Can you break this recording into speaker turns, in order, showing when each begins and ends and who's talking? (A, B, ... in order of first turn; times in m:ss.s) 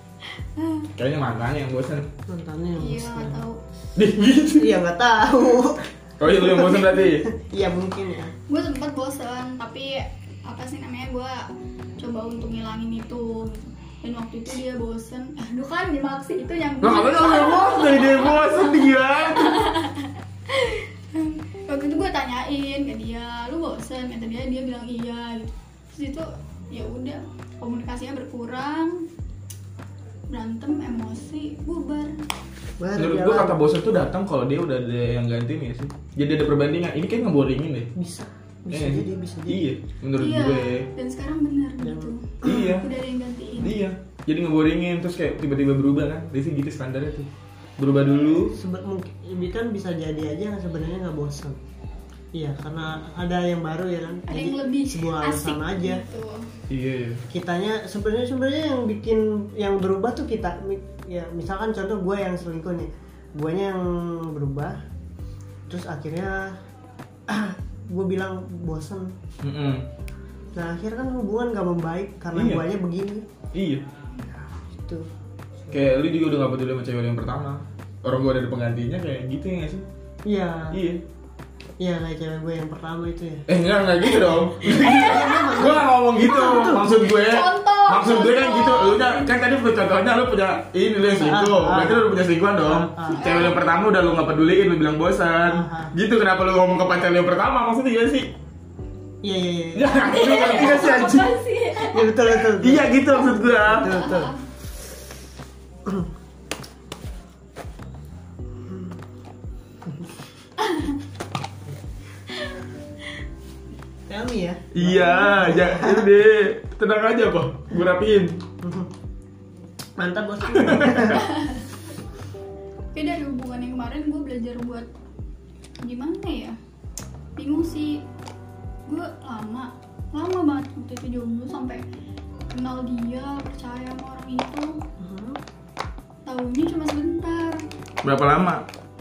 0:00.6-0:00.8 A
0:01.0-0:02.1 B
0:02.3-0:03.4 C
0:02.8-0:03.6 A
0:04.0-0:04.7 B
0:04.6-0:08.3 C
0:06.2-0:07.2 B
0:08.5-0:18.8 A
0:16.8-0:19.6 B
0:19.3-0:29.0 A
0:30.3-0:32.2 A
0:32.8-0:33.6 C
0:33.0-0:37.9 B
0:37.9-0:39.7 C
0:38.7-0:40.9 B
0:40.2-0:43.7 A
0:41.8-0:42.7 C
0:42.4-0:42.9 B
0:43.6-0:48.5 B
0:48.5-0:51.6 C
0:52.4-0:56.0 C
0:54.3-0:56.5 A
0:56.7-0:57.2 B
0:57.3-1:04.8 C
1:05.7-1:06.6 C
1:07.3-1:09.2 C
1:09.4-1:09.8 B
1:10.5-1:13.3 C
1:12.3-1:12.6 B
1:13.5-1:13.8 B
1:14.2-1:15.8 C
1:15.7-1:19.8 B
1:20.2-1:20.8 C
1:20.7-1:21.0 B
1:21.8-1:23.4 C
1:23.5-1:38.3 B
1:24.6-1:25.7 A
1:24.7-1:26.8 C
1:26.2-1:29.3 A
1:31.1-1:33.4 C
1:33.1-1:33.7 A
1:35.4-1:35.9 C
1:39.2-1:39.9 C
1:39.7-1:41.3 B
1:39.9-1:42.2 A
1:41.8-1:44.3 C
1:42.6-1:44.0 B
1:43.1-1:44.4 A
1:48.6-1:49.0 C
1:49.8-1:50.1 C
1:50.6-1:51.0 A
1:52.3-1:52.6 A
1:54.1-1:56.1 C
1:54.7-1:58.4 B
1:58.6-1:58.9 C
2:00.0-2:01.2 C
2:00.5-2:01.2 B
2:01.1-2:01.7 A
2:02.9-2:04.9 A
2:05.8-2:06.6 A
2:07.4-2:08.0 A
2:08.8-2:11.8 A
2:12.5-2:14.8 A
2:15.0-2:15.4 C
2:16.2-2:17.6 A
2:18.0-2:18.6 B